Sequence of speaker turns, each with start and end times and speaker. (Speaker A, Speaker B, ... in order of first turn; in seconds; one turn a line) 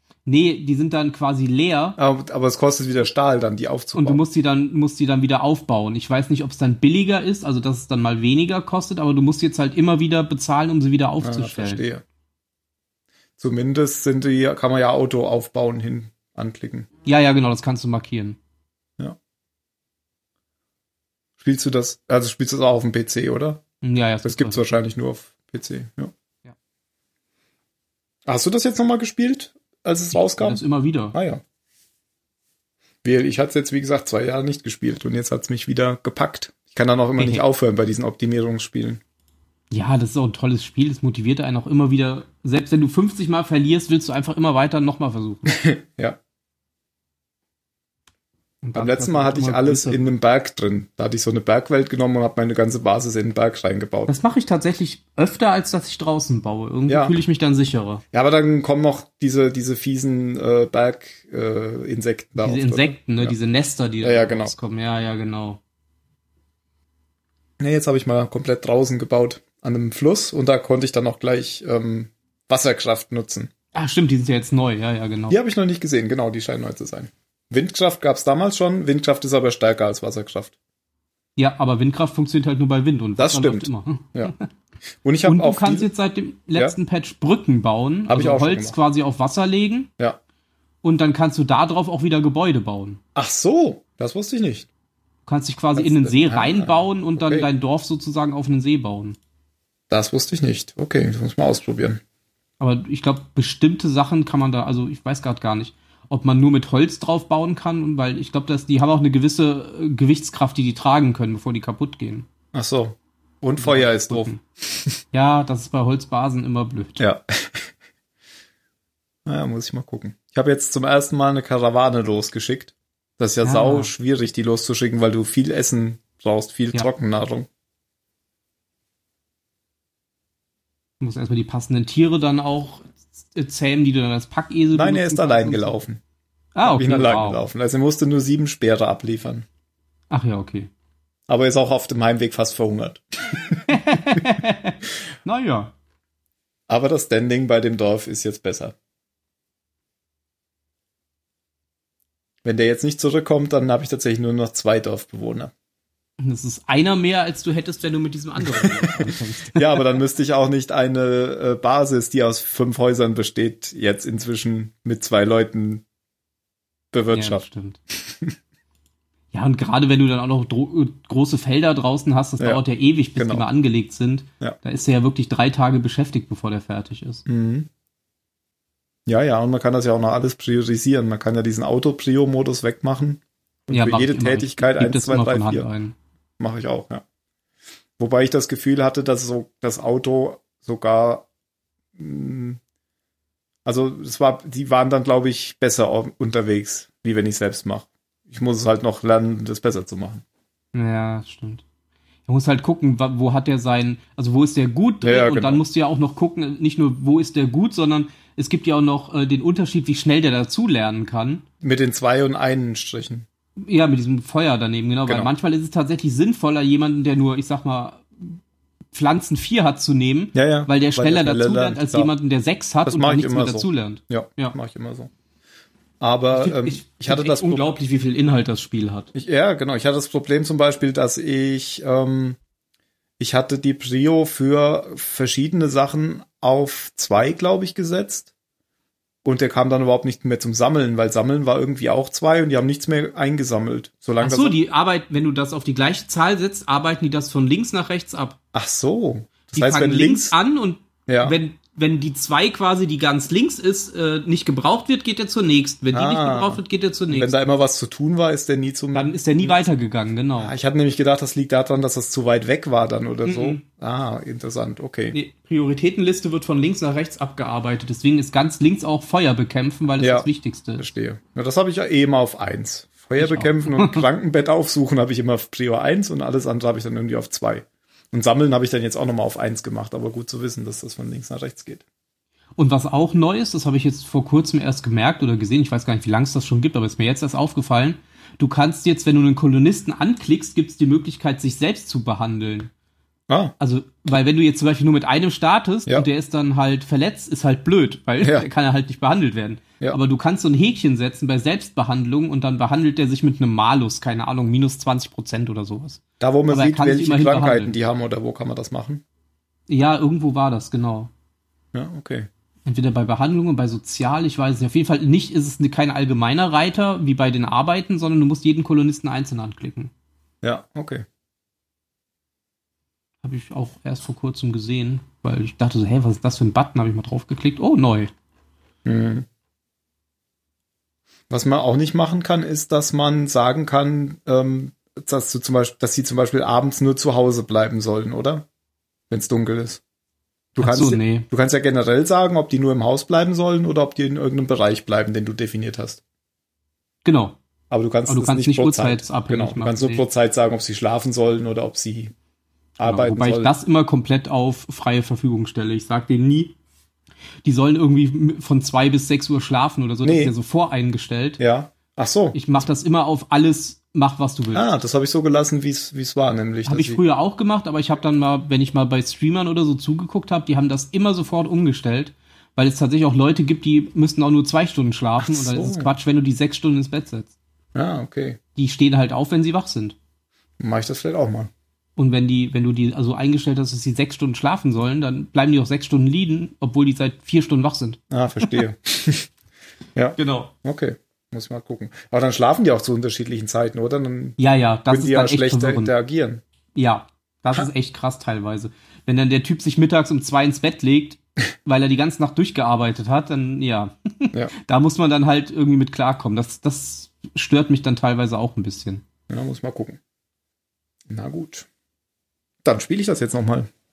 Speaker A: 0.3-2.0
Speaker B: 2.0-4.2
Speaker A: 3.9-11.8
Speaker B: 11.2-12.0
Speaker B: 13.4-16.9
Speaker A: 17.1-18.4
Speaker B: 21.4-23.6
Speaker A: 23.8-24.6
Speaker B: 24.2-26.1
Speaker B: 28.3-30.6
Speaker A: 30.1-31.1
Speaker B: 31.1-31.4
Speaker B: 33.0-39.0
Speaker A: 37.2-37.4
Speaker A: 39.7-45.5
Speaker B: 45.5-46.2
Speaker A: 48.6-50.1
Speaker B: 48.7-54.1
Speaker A: 54.1-58.0
Speaker B: 56.9-57.2
Speaker B: 58.1-63.4
Speaker A: 62.4-65.6
Speaker B: 64.0-64.5
Speaker B: 67.6-73.5
Speaker A: 73.7-75.4
Speaker B: 75.3-80.5
Speaker A: 81.3-84.5
Speaker B: 83.2-84.3
Speaker B: 85.0-85.9
Speaker A: 85.2-89.9
Speaker B: 88.1-88.8
Speaker A: 90.8-93.0
Speaker B: 93.2-94.7
Speaker A: 95.3-99.2
Speaker B: 95.8-97.5
Speaker B: 99.9-102.0
Speaker A: 102.6-112.3
Speaker B: 112.5-115.0
Speaker A: 113.6-114.4
Speaker A: 115.1-117.0
Speaker B: 117.0-117.7
Speaker B: 119.3-127.5
Speaker A: 123.4-123.9
Speaker A: 131.0-135.8
Speaker B: 134.7-136.0
Speaker A: 136.6-137.4
Speaker B: 136.6-139.4
Speaker A: 140.1-140.7
Speaker B: 141.3-144.2
Speaker A: 143.7-145.7
Speaker B: 146.7-148.7
Speaker B: 152.4-155.5
Speaker A: 156.2-159.8
Speaker B: 158.4-165.8
Speaker B: 166.9-167.4
Speaker A: 167.1-167.8
Speaker B: 168.0-168.3
Speaker A: 169.3-177.2
Speaker B: 173.2-173.4
Speaker B: 177.3-177.7
Speaker B: 179.1-185.7
Speaker A: 183.7-185.9
Speaker B: 186.4-187.0
Speaker B: 188.0-191.3
Speaker B: 191.9-192.6
Speaker B: 193.7-200.2
Speaker A: 200.7-201.6
Speaker A: 202.3-211.4
Speaker B: 205.0-205.6
Speaker B: 211.6-213.3
Speaker A: 213.6-218.4
Speaker A: 218.9-224.6
Speaker B: 220.3-222.1
Speaker B: 222.8-225.1
Speaker B: 226.0-227.6
Speaker A: 226.3-229.1
Speaker B: 229.2-232.4
Speaker B: 233.2-238.3
Speaker B: 239.2-244.6
Speaker A: 244.2-248.4
Speaker B: 248.5-250.3
Speaker A: 249.4-257.4
Speaker B: 251.1-251.4
Speaker B: 255.9-259.6
Speaker A: 258.9-260.6
Speaker B: 260.4-265.2
Speaker A: 263.2-263.6
Speaker A: 265.1-270.9
Speaker B: 270.0-281.8
Speaker A: 273.2-274.0
Speaker A: 282.6-292.7
Speaker B: 293.3-293.5
Speaker A: 293.6-307.7
Speaker B: 306.2-309.0
Speaker A: 309.7-311.1
Speaker B: 311.7-312.3
Speaker A: 312.6-319.9
Speaker B: 320.4-321.1
Speaker A: 323.2-328.1
Speaker B: 328.9-329.3
Speaker B: 331.3-338.4
Speaker B: 339.1-339.8
Speaker B: 340.6-346.0
Speaker A: 340.6-341.3
Speaker A: 347.0-347.4
Speaker B: 347.7-352.1
Speaker A: 348.1-350.0
Speaker B: 352.8-353.5
Speaker A: 352.9-356.6
Speaker A: 357.4-361.4
Speaker B: 360.0-360.4
Speaker B: 361.4-362.4
Speaker A: 362.3-364.6
Speaker B: 364.5-367.0
Speaker A: 366.6-377.3
Speaker B: 375.2-375.9
Speaker B: 377.7-378.4
Speaker A: 378.6-379.9
Speaker B: 380.6-381.5
Speaker A: 382.0-388.0
Speaker B: 388.1-389.3
Speaker B: 389.9-394.4
Speaker A: 390.2-390.5
Speaker A: 394.4-395.9
Speaker B: 394.9-396.4
Speaker A: 396.7-409.1
Speaker B: 409.3-410.0
Speaker B: 411.1-411.6
Speaker B: 412.6-413.7